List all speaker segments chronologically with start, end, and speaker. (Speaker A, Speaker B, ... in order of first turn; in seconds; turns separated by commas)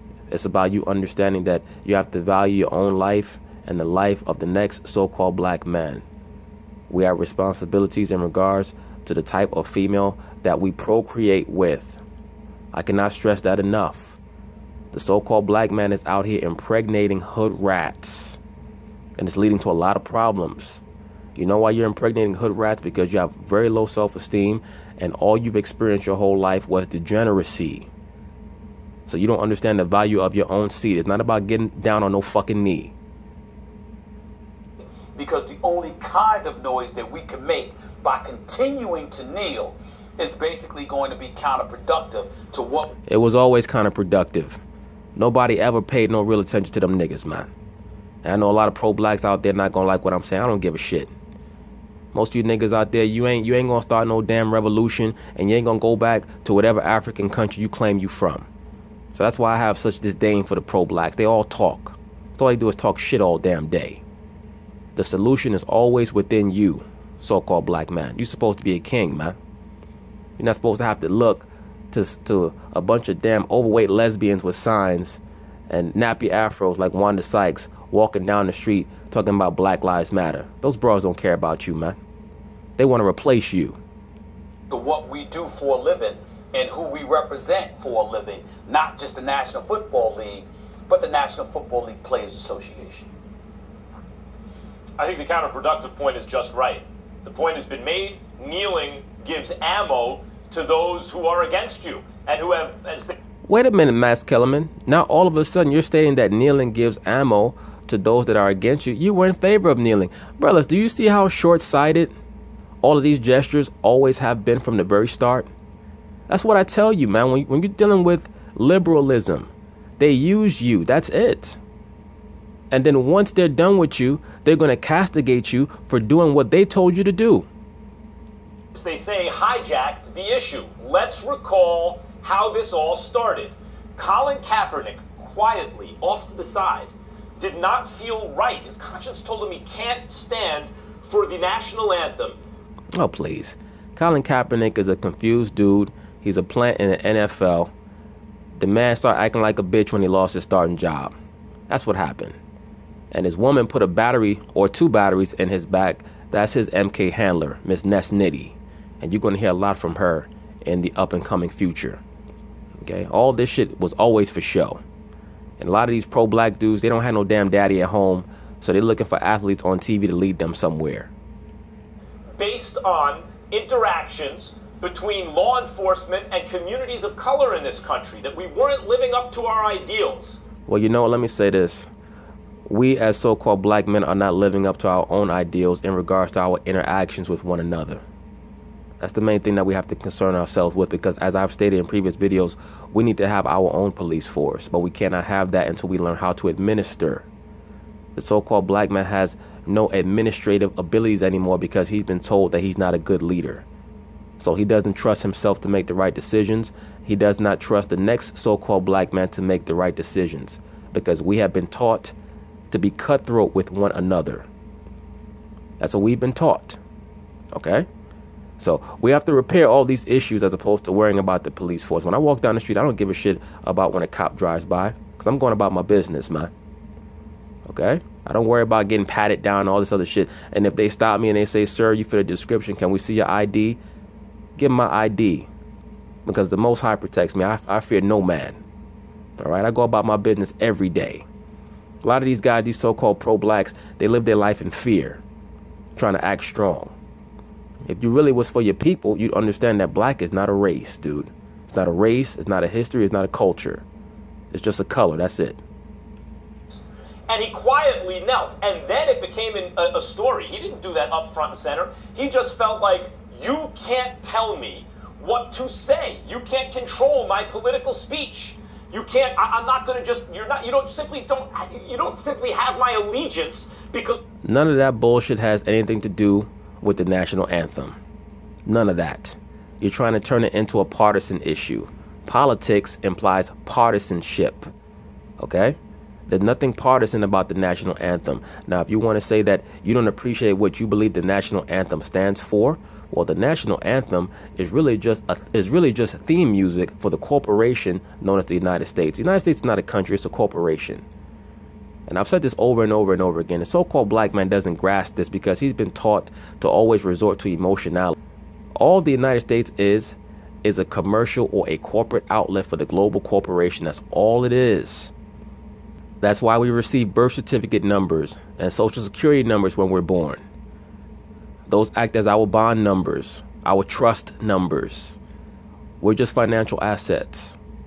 Speaker A: 0.3-6.0, Speaker A: 6.9-12.0, Speaker A: 12.7-14.2, Speaker A: 14.9-18.4, Speaker A: 19.2-20.8, Speaker A: 21.4-27.9, Speaker A: 29.1-32.9, Speaker B: 35.1-43.0, Speaker A: 43.1-44.6, Speaker A: 45.1-47.5, Speaker A: 48.2-51.1, Speaker A: 52.1-58.5, Speaker A: 59.1-64.0, Speaker A: 65.0-69.4, Speaker A: 70.4-82.0, Speaker A: 82.8-83.8, Speaker B: 84.7-93.1, Speaker C: 95.0-103.2, Speaker A: 103.5-112.1, Speaker A: 112.8-115.5, Speaker A: 116.3-121.6, Speaker A: 122.7-127.5, Speaker C: 128.7-142.4, Speaker A: 142.9-147.7, Speaker A: 148.6-151.1, Speaker A: 151.7-152.4, Speaker A: 153.1-162.0, Speaker A: 162.8-164.8, Speaker A: 165.6-171.1, Speaker C: 172.3-180.4, Speaker A: 180.7-181.9, Speaker A: 182.7-188.0, Speaker A: 189.0-197.2, Speaker A: 198.2-203.6, Speaker A: 204.4-212.1, Speaker A: 212.7-214.4, Speaker A: 215.8-216.8, Speaker A: 217.5-217.9, Speaker A: 218.6-226.5, Speaker A: 227.7-233.8, Speaker A: 234.6-235.5, Speaker A: 236.3-238.6, Speaker A: 239.4-241.2, Speaker A: 242.0-245.2, Speaker A: 245.9-246.9, Speaker A: 247.8-253.8, Speaker A: 254.5-255.6, Speaker C: 257.3-274.2, Speaker A: 274.4-278.0, Speaker A: 278.6-284.7, Speaker A: 285.4-285.8, Speaker A: 286.3-301.0, Speaker A: 302.1-308.1, Speaker A: 308.8-315.1, Speaker A: 316.2-320.4, Speaker A: 321.7-325.2, Speaker A: 326.0-327.6